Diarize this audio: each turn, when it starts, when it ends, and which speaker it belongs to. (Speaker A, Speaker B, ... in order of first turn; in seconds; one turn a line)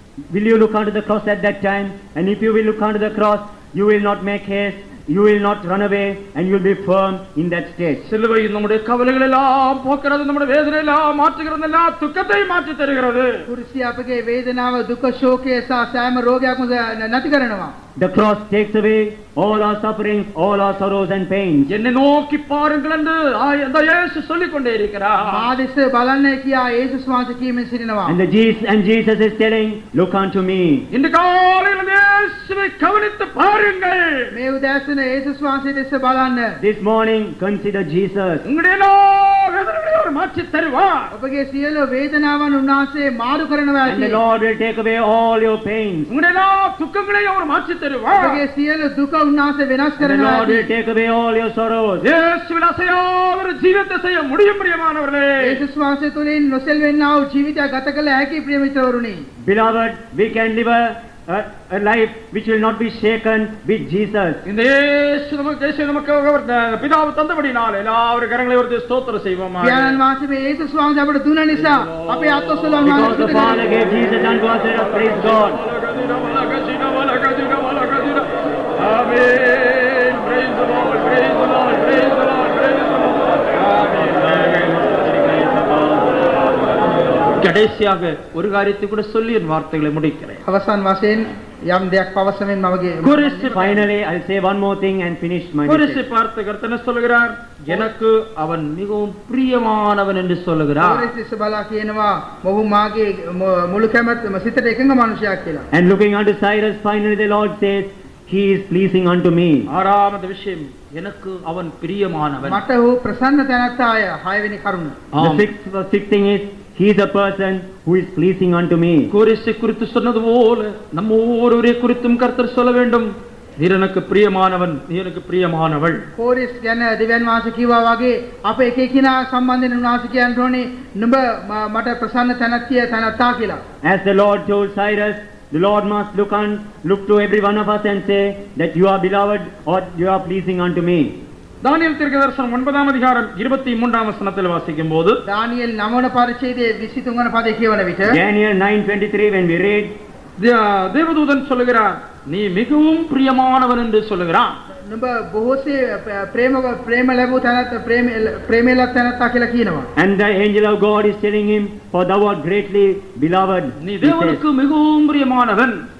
Speaker A: 0.3-8.0
Speaker B: 8.0-13.4
Speaker C: 13.5-17.7
Speaker A: 18.0-21.7
Speaker B: 21.7-25.4
Speaker C: 25.2-28.2
Speaker A: 28.1-30.9
Speaker B: 30.9-34.3
Speaker C: 34.3-36.6
Speaker A: 36.6-38.4
Speaker B: 38.5-41.1
Speaker C: 41.1-44.2
Speaker A: 43.8-46.1
Speaker B: 46.1-48.4
Speaker C: 48.1-50.7
Speaker A: 50.0-52.0
Speaker B: 52.0-55.6
Speaker C: 55.4-59.2
Speaker A: 59.4-64.4
Speaker B: 64.4-70.0
Speaker C: 69.6-73.6
Speaker B: 71.6-86.3
Speaker A: 72.8-75.6
Speaker B: 87.4-90.4
Speaker C: 90.5-93.8
Speaker B: 93.0-93.7
Speaker A: 93.5-96.0
Speaker B: 95.7-101.1
Speaker C: 100.8-105.7
Speaker A: 105.7-109.7
Speaker B: 109.7-112.6
Speaker C: 112.4-115.0
Speaker B: 115.1-115.5
Speaker A: 115.2-119.1
Speaker B: 119.1-126.0
Speaker C: 126.2-133.6
Speaker A: 133.8-141.1
Speaker B: 141.6-145.2
Speaker C: 145.2-148.2
Speaker A: 148.0-149.9
Speaker B: 150.4-154.6
Speaker C: 154.9-159.9
Speaker A: 159.9-164.4
Speaker B: 163.8-165.8